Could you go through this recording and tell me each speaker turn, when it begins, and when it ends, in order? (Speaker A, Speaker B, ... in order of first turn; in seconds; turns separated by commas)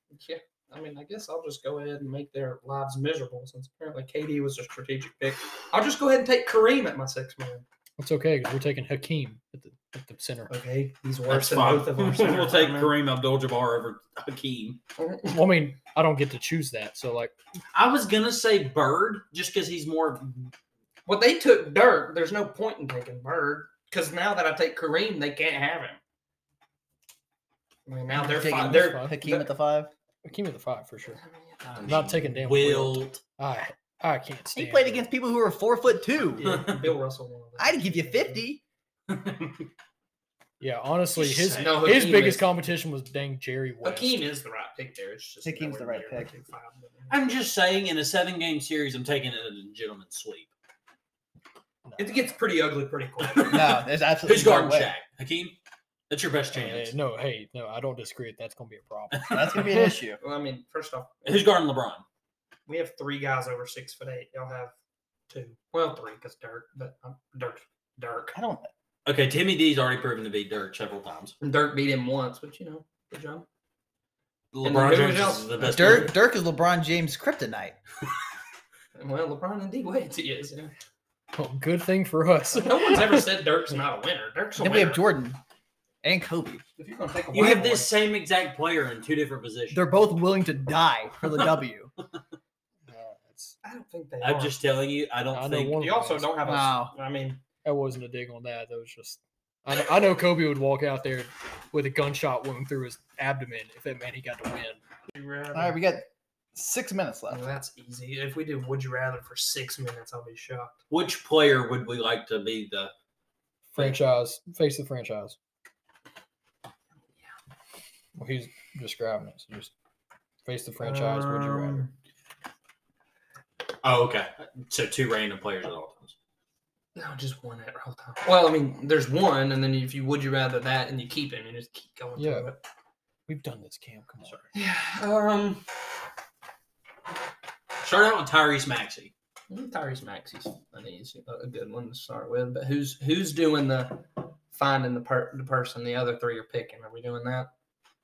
Speaker A: 0.1-7.7, Speaker B: 8.0-10.5, Speaker A: 10.5-12.9, Speaker C: 11.3-14.8, Speaker A: 15.0-15.4, Speaker B: 15.3-17.4, Speaker C: 17.7-20.5, Speaker A: 21.1-26.0, Speaker A: 27.9-29.5, Speaker D: 28.2-29.9, Speaker B: 28.2-29.2, Speaker B: 30.2-31.2, Speaker A: 31.2-32.0, Speaker C: 31.6-33.2, Speaker B: 31.9-35.1, Speaker D: 34.5-36.7, Speaker A: 36.4-38.5, Speaker D: 37.6-38.6, Speaker C: 39.1-39.7, Speaker B: 40.6-44.2, Speaker C: 41.2-42.0, Speaker A: 41.5-42.5, Speaker A: 43.8-47.2, Speaker D: 45.4-46.3, Speaker C: 47.1-50.5, Speaker B: 51.9-52.3, Speaker A: 52.0-53.7, Speaker D: 53.5-54.9, Speaker C: 54.2-55.6, Speaker C: 56.1-57.0, Speaker B: 56.5-60.0, Speaker C: 59.1-59.6, Speaker D: 59.3-60.2, Speaker A: 60.2-61.4, Speaker C: 61.2-62.0, Speaker A: 62.7-64.7, Speaker A: 65.3-68.4, Speaker D: 68.3-68.7, Speaker C: 69.0-71.4, Speaker A: 71.4-73.5, Speaker C: 74.5-76.2, Speaker A: 74.6-76.1, Speaker D: 75.6-77.8, Speaker A: 79.0-80.7, Speaker B: 81.3-83.2, Speaker A: 82.5-85.0, Speaker D: 84.6-85.4, Speaker D: 86.0-86.6, Speaker A: 86.8-87.9, Speaker C: 87.3-89.8, Speaker D: 87.4-87.8, Speaker D: 89.7-91.9, Speaker B: 92.9-93.6, Speaker A: 93.6-94.6, Speaker C: 94.2-95.8, Speaker B: 95.3-96.3, Speaker A: 95.8-97.4, Speaker D: 96.5-96.9, Speaker B: 97.6-104.8, Speaker A: 105.1-105.8, Speaker D: 105.5-107.4, Speaker A: 107.3-110.8, Speaker C: 110.9-112.9, Speaker B: 113.7-115.4, Speaker B: 118.2-119.7, Speaker B: 120.5-121.9, Speaker A: 120.8-121.9, Speaker C: 123.8-126.1, Speaker A: 127.0-132.7, Speaker B: 132.2-132.5, Speaker B: 133.3-134.4, Speaker A: 134.5-135.6, Speaker C: 137.8-139.1, Speaker A: 139.5-147.5